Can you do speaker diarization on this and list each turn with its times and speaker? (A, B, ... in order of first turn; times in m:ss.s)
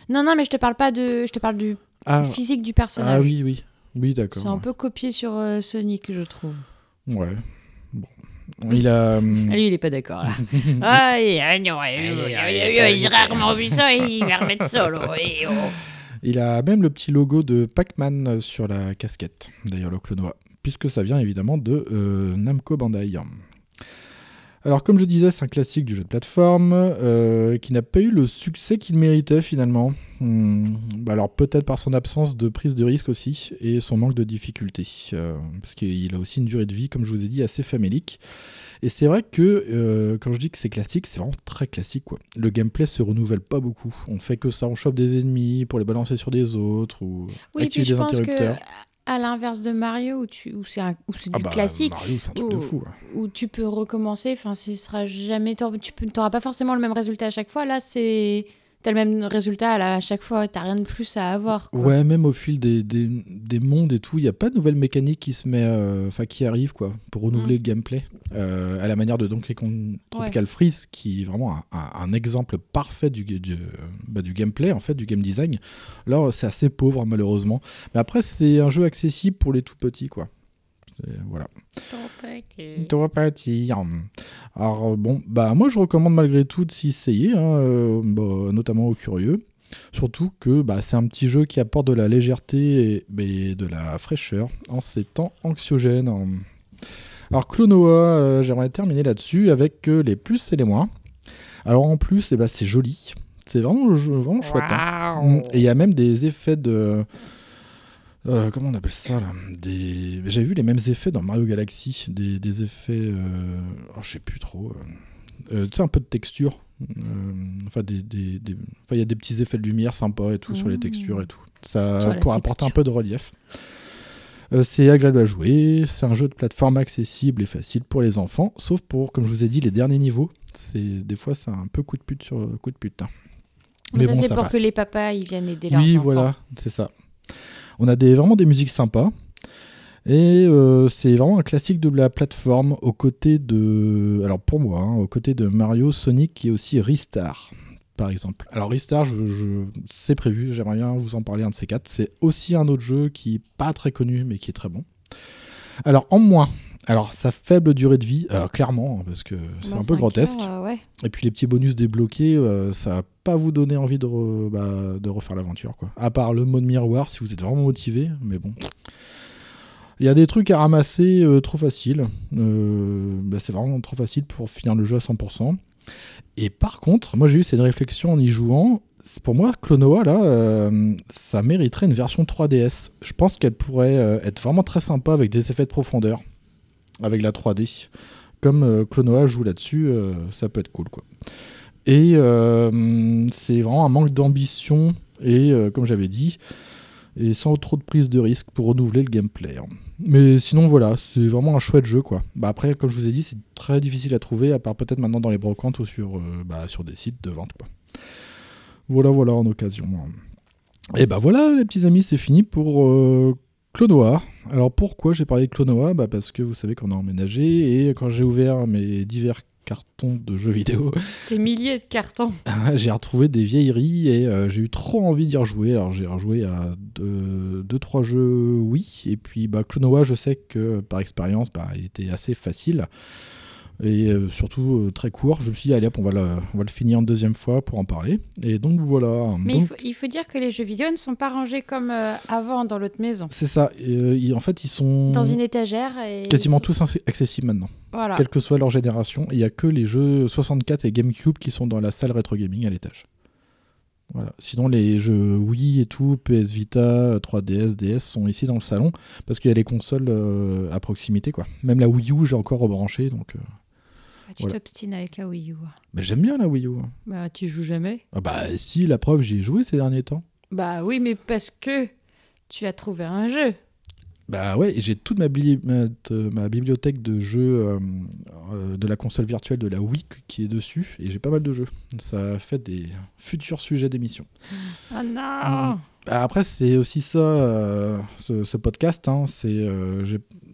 0:00.1-0:03.3 A
0:02.1-0:02.4 B
0:02.9-0:04.6 B
0:04.4-0:06.6 A
0:07.1-0:09.6 B
0:09.4-0:15.8 A
0:10.4-0:11.0 B
0:12.0-0:13.8 B
0:16.2-0:23.4 B
0:24.6-0:38.2 B
0:38.8-0:48.6 B
0:47.5-1:02.0 A
0:51.3-0:53.0 B
1:01.7-1:20.3 B
1:21.0-1:21.5 B
1:21.9-1:22.9 A
1:22.8-1:36.5 B
1:37.3-1:40.9 B
1:41.6-1:47.1 B
1:44.4-1:45.6 A
1:48.2-1:55.0 B
1:55.5-2:03.4 B
2:00.5-2:01.3 A
2:01.8-2:02.8 A
2:04.5-2:13.1 B
2:13.9-2:16.3 A
2:14.0-2:14.6 B
2:15.7-2:16.9 B
2:17.8-2:19.1 B
2:20.1-2:34.9 B
2:35.8-2:40.5 B
2:39.6-2:40.8 A
2:41.0-2:48.6 B
2:50.0-2:55.6 B
2:56.4-3:06.2 B
3:07.0-3:11.1 B
3:11.8-3:16.4 B
3:17.2-3:27.7 B
3:28.9-3:30.1 B
3:30.9-3:41.0 B
3:41.3-3:42.4 A
3:42.5-3:52.9 B
3:53.8-3:59.7 B
3:59.4-4:03.3 A
4:03.3-4:05.4 B
4:05.1-4:06.7 A
4:06.3-4:13.1 B
4:07.9-4:08.2 A
4:14.1-4:23.4 B
4:24.3-4:25.7 A
4:25.9-4:26.9 B
4:27.1-4:28.0 A
4:28.1-4:30.2 B
4:30.5-4:31.9 A
4:32.5-4:33.6 A
4:34.3-4:44.3 B
4:44.9-4:45.8 A
4:45.4-4:50.2 B